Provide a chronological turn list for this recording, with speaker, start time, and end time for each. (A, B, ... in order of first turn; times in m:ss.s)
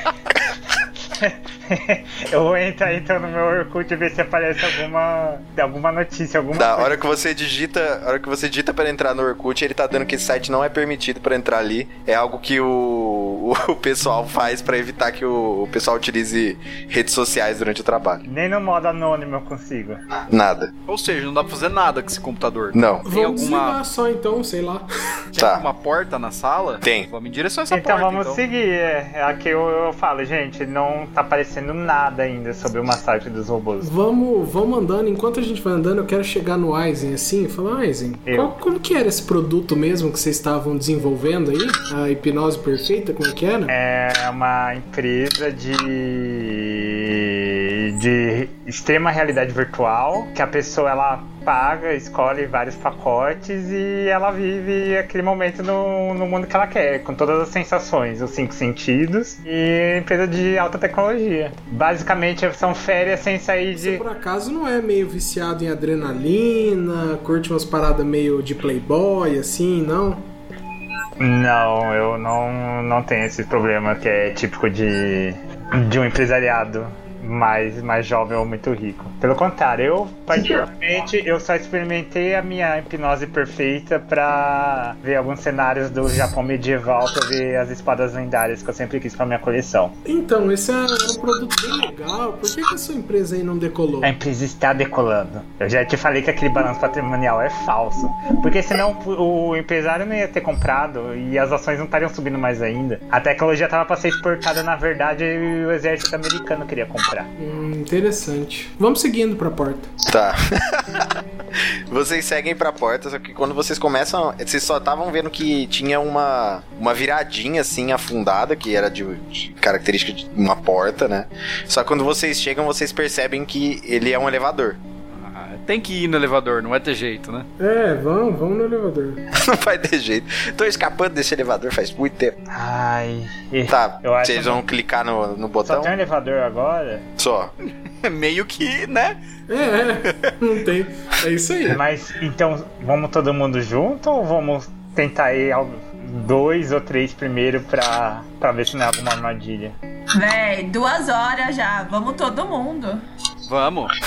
0:01.1-0:07.0 A
0:06.6-0:18.2 B
0:18.2-0:20.0 A
0:20.3-0:20.7 B
0:20.9-0:23.8 C
0:22.7-0:23.1 B
0:23.0-0:24.9 D
0:25.3-0:28.4 C
0:25.4-0:25.7 B
0:26.8-0:27.1 B
0:27.7-0:33.9 A
0:33.8-0:43.7 D
0:38.3-0:38.6 A
0:43.7-1:04.0 A
1:03.8-1:10.3 D
1:11.2-1:30.0 A
1:30.0-1:34.1 D
1:34.0-1:47.3 A
1:47.4-1:49.9 D
1:50.1-2:04.8 B
2:05.1-2:07.5 C
2:07.6-2:09.2 D
2:09.3-2:12.4 B
2:12.5-2:14.6 A
2:13.7-2:15.9 B
2:15.6-2:17.1 A
2:17.2-2:17.5 B
2:18.0-2:19.2 C
2:19.5-2:21.8 D
2:20.1-2:20.3 C
2:21.7-2:29.8 A
2:30.1-2:33.0 E
2:33.5-2:34.0 C